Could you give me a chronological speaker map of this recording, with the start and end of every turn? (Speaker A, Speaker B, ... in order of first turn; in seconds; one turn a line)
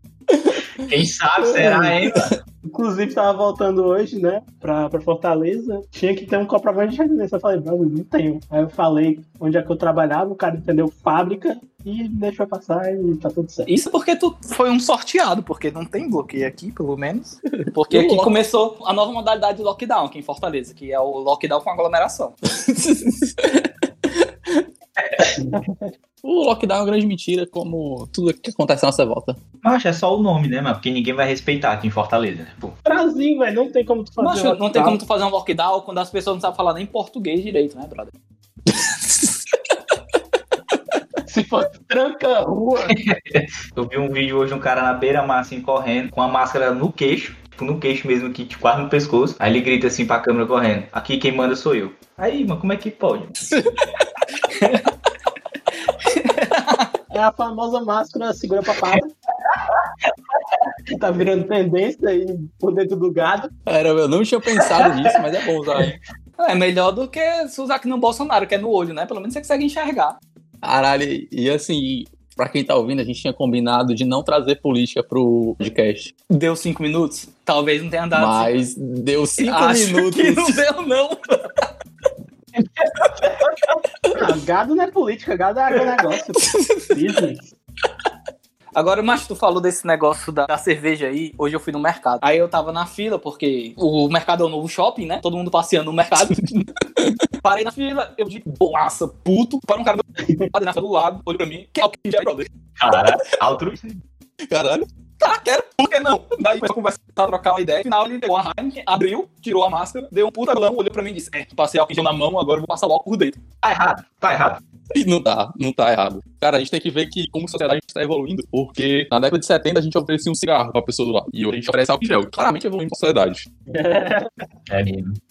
Speaker A: 0.3-0.9
Speaker B: 0.8-2.3
Speaker C: 1.4-2.0
Speaker C: 2.7-13.7
Speaker D: 13.7-22.3
Speaker A: 17.4-18.3
Speaker A: 22.6-24.6
Speaker C: 25.4-25.8
Speaker A: 26.2-29.4
Speaker B: 29.6-32.7
Speaker C: 32.8-35.0
Speaker D: 34.2-38.1
Speaker C: 41.3-43.0
Speaker B: 42.9-53.3
Speaker A: 53.6-54.1
Speaker D: 54.5-54.8
Speaker D: 56.0-56.9
Speaker C: 57.1-59.1
Speaker C: 60.9-63.5
Speaker A: 63.7-66.0
Speaker D: 66.4-70.2
Speaker A: 70.6-76.1
Speaker D: 76.3-78.5
Speaker A: 78.1-80.6
Speaker D: 79.4-81.7
Speaker B: 82.6-83.7
Speaker C: 84.2-87.5
Speaker A: 86.4-87.0
Speaker D: 88.7-96.4
Speaker A: 96.5-97.3
Speaker D: 97.4-102.5
Speaker C: 100.2-100.5
Speaker B: 102.8-104.0
Speaker A: 104.5-104.8
Speaker D: 105.2-113.4
Speaker B: 113.6-114.6
Speaker A: 114.9-123.5
Speaker C: 123.7-124.3
Speaker B: 124.7-125.2